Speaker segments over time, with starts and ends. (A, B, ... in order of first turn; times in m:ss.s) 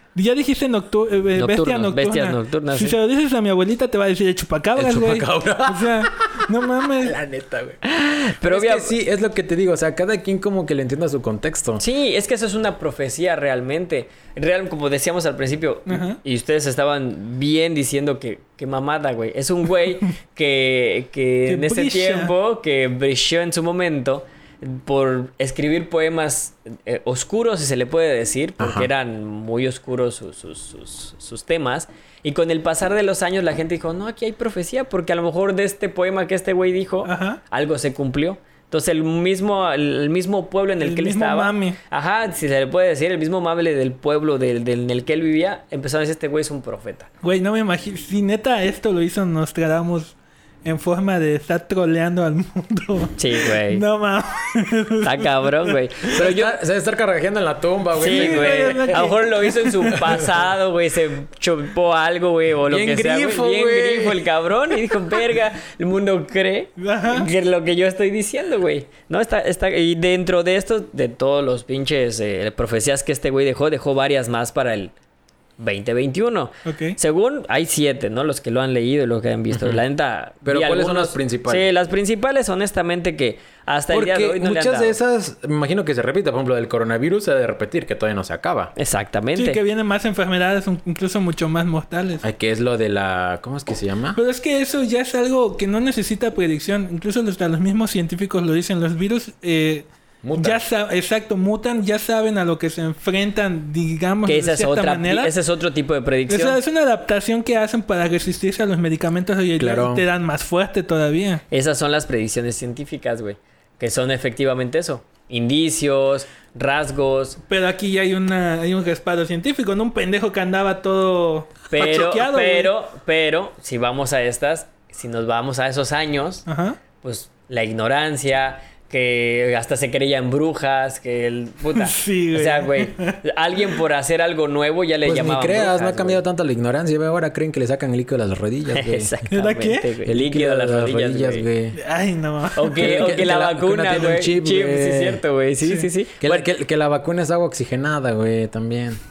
0:00.1-0:07.2 A
0:01.3-0:03.0 B
0:04.7-0:06.1 C
0:07.0-0:07.8 C
0:07.8-0:08.9 B
0:08.4-0:11.8 C
0:11.8-0:47.1 B
0:15.9-0:16.2 A
0:21.5-0:22.3 A
0:28.6-0:28.9 C
0:37.0-0:37.4 A
0:40.8-0:41.8 A
0:47.2-0:55.8 A
0:53.2-0:53.8 B
0:55.0-0:56.6 B
0:56.1-0:59.0 C
0:58.0-1:00.2 A
0:58.0-1:14.9 B
1:02.7-1:04.3 C
1:06.8-1:07.3 A
1:15.6-1:25.0 B
1:16.6-1:17.0 A
1:19.5-1:19.8 C
1:20.4-1:21.7 C
1:23.9-1:28.7 C
1:28.8-1:29.6 B
1:29.4-1:32.2 A
1:32.2-1:34.2 C
1:34.1-1:45.3 A
1:40.2-1:40.6 C
1:44.2-1:46.6 B
1:46.3-1:51.4 A
1:49.6-1:50.0 C
1:51.5-1:57.4 B
1:57.5-2:02.7 A
2:01.7-2:06.4 B
2:06.5-2:06.8 A
2:07.0-2:16.2 B
2:11.7-2:13.2 A
2:15.0-2:19.1 C
2:18.7-2:21.5 B
2:19.3-2:19.9 A
2:20.0-2:21.8 C
2:21.7-2:22.9 A
2:22.5-2:26.4 B
2:22.7-2:25.2 C
2:25.6-2:25.9 A
2:26.2-2:29.0 C